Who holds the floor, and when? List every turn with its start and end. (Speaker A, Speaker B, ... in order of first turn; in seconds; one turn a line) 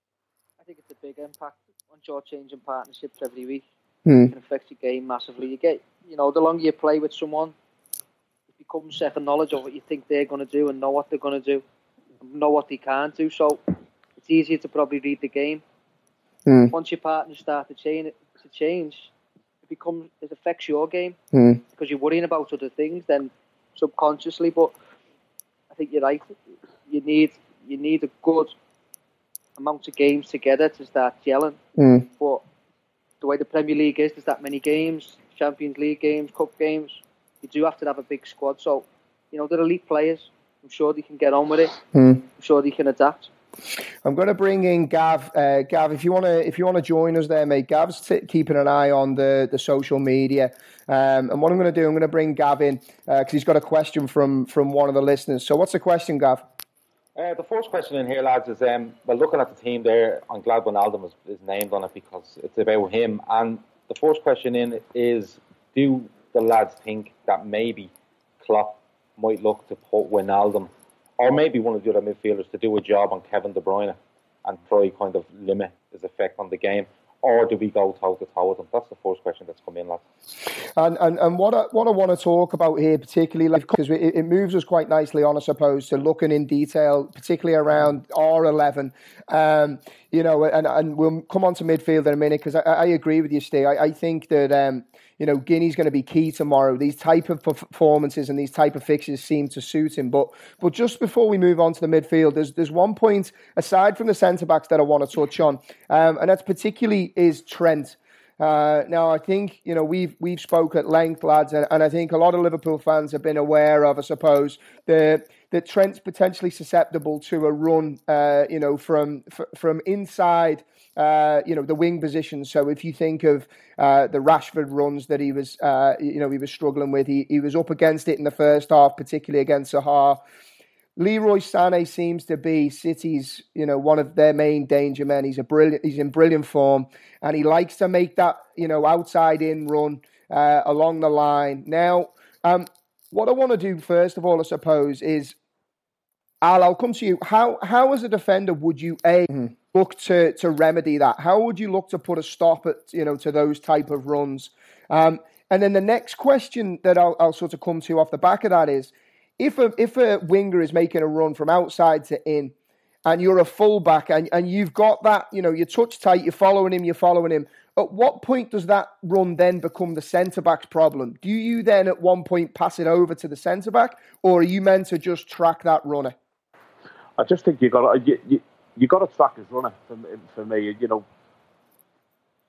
Speaker A: 0.6-3.6
Speaker B: 4.0-4.3
Speaker A: 4.3-7.5
Speaker A: 8.6-11.6
Speaker A: 12.2-13.6
Speaker A: 14.2-15.6
Speaker B: 16.4-16.7
Speaker A: 16.7-19.1
Speaker A: 19.7-21.2
Speaker B: 21.3-21.6
Speaker A: 21.7-24.7
Speaker A: 25.7-26.3
Speaker A: 26.9-28.6
Speaker A: 29.6-31.6
Speaker B: 31.8-32.1
Speaker A: 33.2-41.8
Speaker B: 41.9-42.2
Speaker A: 42.4-43.3
Speaker B: 44.0-56.4
Speaker C: 57.1-80.0
Speaker B: 80.8-130.2
Speaker B: 131.0-145.3
Speaker B: 146.4-162.5
Speaker B: 163.1-176.2
Speaker D: 177.2-181.0